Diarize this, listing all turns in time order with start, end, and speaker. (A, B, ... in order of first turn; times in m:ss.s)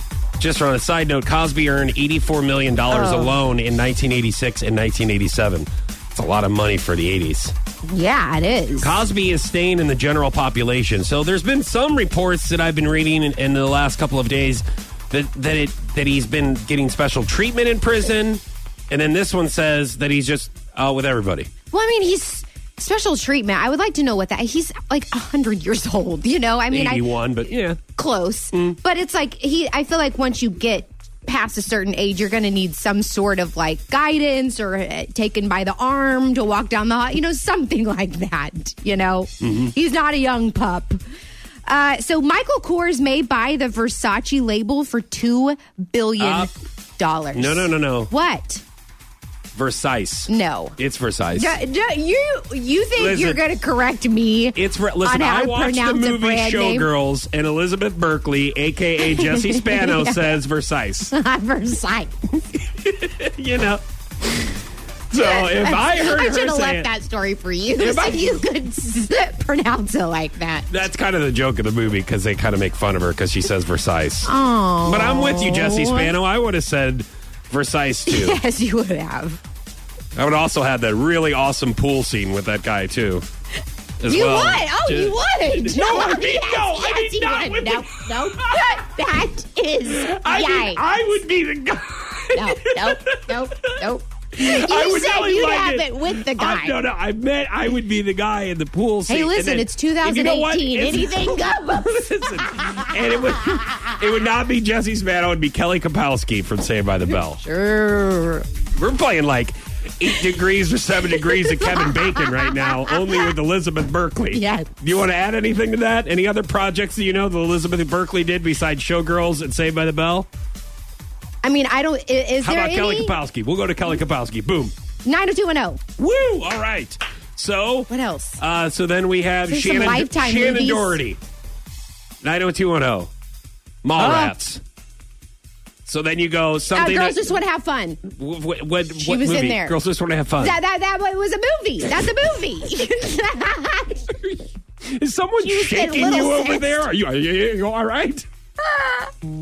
0:00.4-0:07.6 A
0:02.9-0:03.3 B
0:07.8-0:09.0 B
0:08.8-0:21.5 A
0:21.7-0:27.1 B
0:26.7-0:27.8 A
0:27.9-0:41.0 B
0:28.5-0:28.8 A
0:39.4-0:39.7 A
0:41.7-0:48.6 B
0:46.2-0:46.5 A
0:47.3-0:48.1 A
0:49.6-0:51.6 A
0:50.3-0:50.8 B
0:51.4-0:56.9 B
0:53.0-0:53.4 A
0:54.6-1:01.2 A
0:59.0-1:00.2 B
1:01.1-1:02.1 B
1:02.5-1:04.6 A
1:05.1-1:06.9 A
1:05.1-1:10.8 B
1:07.8-1:08.4 A
1:10.7-1:14.3 A
1:14.2-1:16.2 B
1:14.8-1:18.4 A
1:18.1-1:19.4 B
1:20.2-1:23.3 A
1:24.0-1:29.1 A
1:24.0-1:30.8 B
1:29.9-1:47.4 A
1:32.3-1:36.8 B
1:39.1-1:43.3 B
1:47.4-1:48.5 B
1:48.8-2:00.3 A
1:51.1-1:53.3 B
1:54.3-1:54.7 B
2:01.4-2:03.2 B
2:02.4-2:04.7 A
2:05.0-2:05.8 B
2:06.0-2:11.2 A
2:07.9-2:08.4 B
2:09.5-2:11.0 B
2:12.2-2:13.1 A
2:13.8-2:14.6 A
2:14.0-2:14.4 B
2:15.8-2:17.3 A
2:16.7-2:18.0 B
2:18.0-2:20.6 A
2:19.0-2:19.8 B
2:20.4-2:24.1 B
2:24.1-2:24.4 A
2:25.0-2:28.3 A
2:25.4-2:26.8 B
2:28.6-2:29.1 B